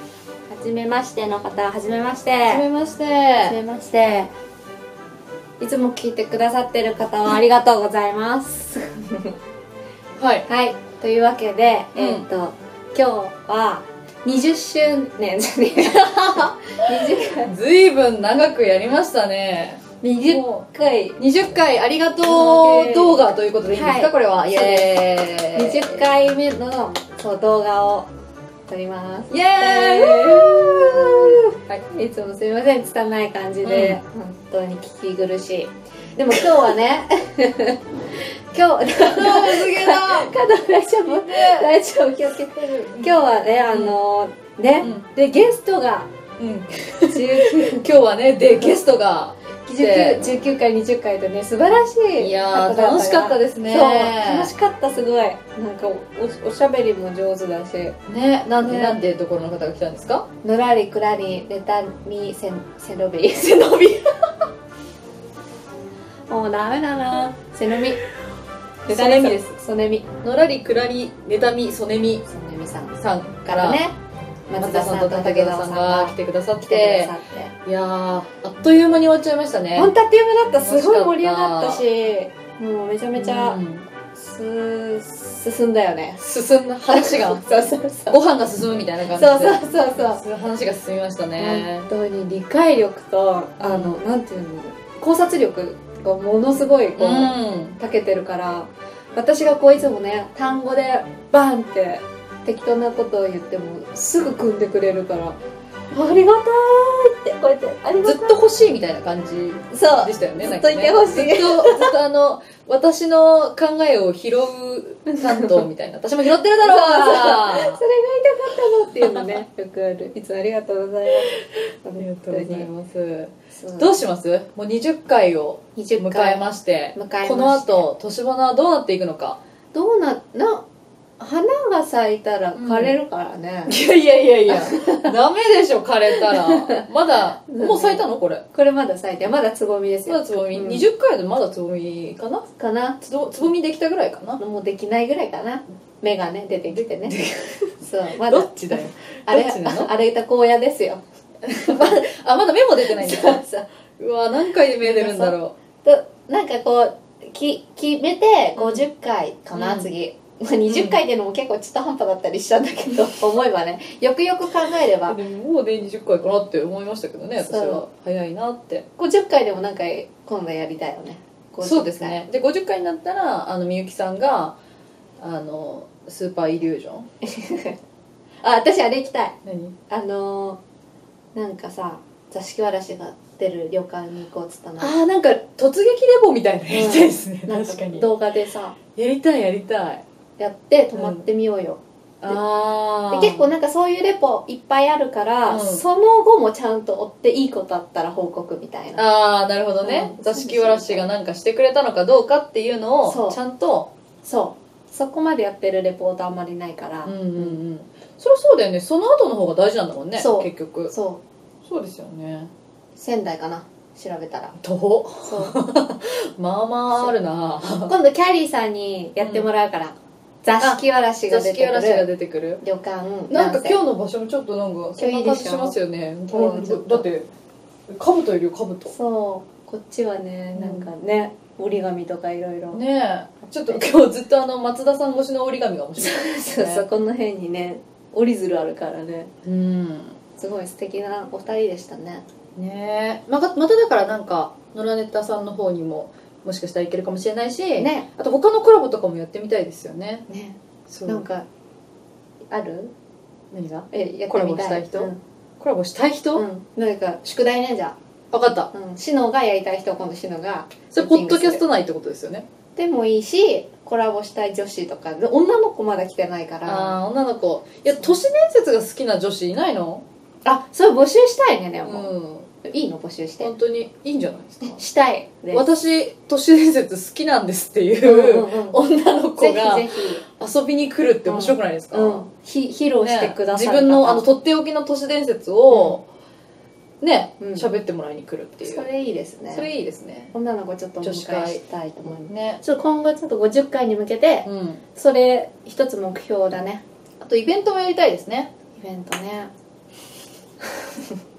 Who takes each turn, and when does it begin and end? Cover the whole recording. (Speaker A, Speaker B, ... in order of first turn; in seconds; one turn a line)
Speaker A: 0.5-2.6
Speaker B: 2.4-3.6
Speaker A: 3.4-4.3
Speaker A: 5.6-9.3
Speaker B: 10.2-10.4
Speaker A: 10.5-17.5
Speaker B: 11.9-12.2
Speaker B: 15.8-20.5
Speaker A: 20.0-21.2
Speaker B: 21.2-26.1
Speaker A: 22.2-25.0
Speaker A: 25.5-28.1
Speaker A: 28.7-46.1
Speaker B: 29.3-31.5
Speaker B: 33.6-34.0
Speaker B: 38.9-40.3
Speaker B: 41.0-41.7
Speaker B: 42.5-44.0
Speaker B: 46.4-50.3
Speaker A: 47.1-47.8
Speaker A: 49.7-58.0
Speaker B: 52.2-54.5
Speaker B: 58.1-60.2
Speaker A: 58.5-59.0
Speaker A: 60.4-63.7
Speaker B: 63.4-64.2
Speaker A: 66.3-68.0
Speaker A: 68.8-70.0
Speaker B: 68.9-69.4
Speaker B: 70.2-72.2
Speaker A: 72.2-74.0
Speaker B: 73.0-73.8
Speaker A: 74.5-77.5
Speaker B: 74.6-77.1
Speaker B: 77.6-79.9
Speaker A: 79.7-83.6
Speaker B: 80.5-81.8
Speaker B: 83.1-83.8
Speaker A: 84.1-86.2
Speaker B: 86.2-91.9
Speaker A: 86.9-88.2
Speaker A: 89.1-90.2
Speaker A: 91.4-105.4
Speaker B: 93.6-94.0
Speaker B: 97.0-97.8
Speaker A: 105.9-108.4
Speaker B: 108.0-117.8
Speaker A: 109.7-111.9
Speaker A: 115.1-115.6
Speaker A: 116.6-122.7
Speaker B: 119.0-119.3
Speaker B: 122.0-129.4
Speaker A: 123.5-124.0
Speaker A: 125.8-127.9
Speaker A: 129.7-130.7
Speaker A: 131.2-133.8
Speaker B: 132.6-133.0
Speaker B: 133.7-138.4
Speaker A: 134.5-135.1
Speaker A: 136.1-136.8
Speaker A: 137.5-140.8
Speaker B: 140.1-142.4
Speaker A: 142.6-143.0
Speaker B: 143.0-144.4
Speaker A: 144.4-147.2
Speaker B: 146.7-149.9
Speaker A: 147.8-152.1
Speaker B: 151.4-153.4
Speaker A: 152.8-153.7
Speaker B: 154.0-155.5
Speaker A: 154.8-165.2
Speaker B: 158.6-158.8
Speaker B: 159.5-159.9
Speaker B: 160.7-161.0
Speaker B: 165.1-168.8
Speaker A: 167.4-167.8
Speaker A: 169.0-172.2
Speaker B: 171.6-174.6
Speaker B: 175.2-177.1
Speaker A: 177.2-177.8
Speaker A: 178.4-179.3
Speaker B: 179.4-179.7
Speaker A: 179.9-180.6
Speaker A: 181.3-184.9
Speaker B: 184.8-188.1
Speaker A: 186.7-188.8
Speaker B: 188.9-190.0
Speaker A: 190.4-192.4
Speaker B: 190.9-191.2
Speaker B: 192.2-193.5
Speaker A: 193.1-199.1
Speaker B: 195.4-195.8
Speaker B: 199.0-203.9
Speaker A: 199.8-201.1
Speaker A: 203.0-203.4
Speaker A: 204.2-207.6
Speaker B: 207.0-210.9
Speaker A: 210.2-211.2
Speaker B: 211.6-212.5
Speaker A: 212.9-214.6
Speaker B: 214.6-217.9
Speaker A: 215.2-215.6
Speaker A: 217.8-222.1
Speaker B: 219.2-219.5
Speaker B: 220.6-222.6
Speaker A: 222.6-223.8
Speaker B: 223.3-227.3
Speaker A: 225.0-225.8
Speaker A: 226.3-227.1
Speaker B: 227.9-228.9
Speaker A: 228.9-232.8
Speaker B: 230.5-230.9
Speaker B: 232.7-236.8
Speaker A: 236.0-239.3
Speaker B: 239.4-240.2
Speaker A: 240.4-242.2
Speaker B: 242.5-250.2
Speaker A: 247.8-248.1
Speaker A: 250.3-251.4
Speaker B: 250.9-251.2
Speaker A: 252.5-252.9
Speaker B: 253.5-256.4
Speaker A: 253.9-255.2
Speaker A: 256.3-257.9
Speaker B: 258.3-258.7
Speaker A: 258.7-261.6
Speaker B: 260.9-262.4
Speaker A: 262.7-267.0
Speaker B: 266.6-270.0
Speaker A: 270.4-272.1
Speaker B: 271.8-272.5
Speaker A: 272.6-273.5
Speaker B: 273.4-274.8
Speaker A: 274.6-275.7
Speaker B: 275.5-282.2
Speaker A: 278.0-278.8
Speaker A: 279.4-280.2
Speaker A: 281.2-284.2
Speaker B: 283.0-286.0
Speaker A: 285.7-286.0
Speaker B: 287.0-288.9
Speaker A: 287.4-287.7
Speaker A: 288.6-289.7
Speaker B: 289.5-290.3
Speaker A: 290.3-296.8
Speaker B: 291.0-291.6
Speaker B: 292.3-292.6
Speaker B: 294.4-294.8
Speaker B: 297.2-298.5
Speaker A: 298.7-299.5
Speaker A: 300.7-301.1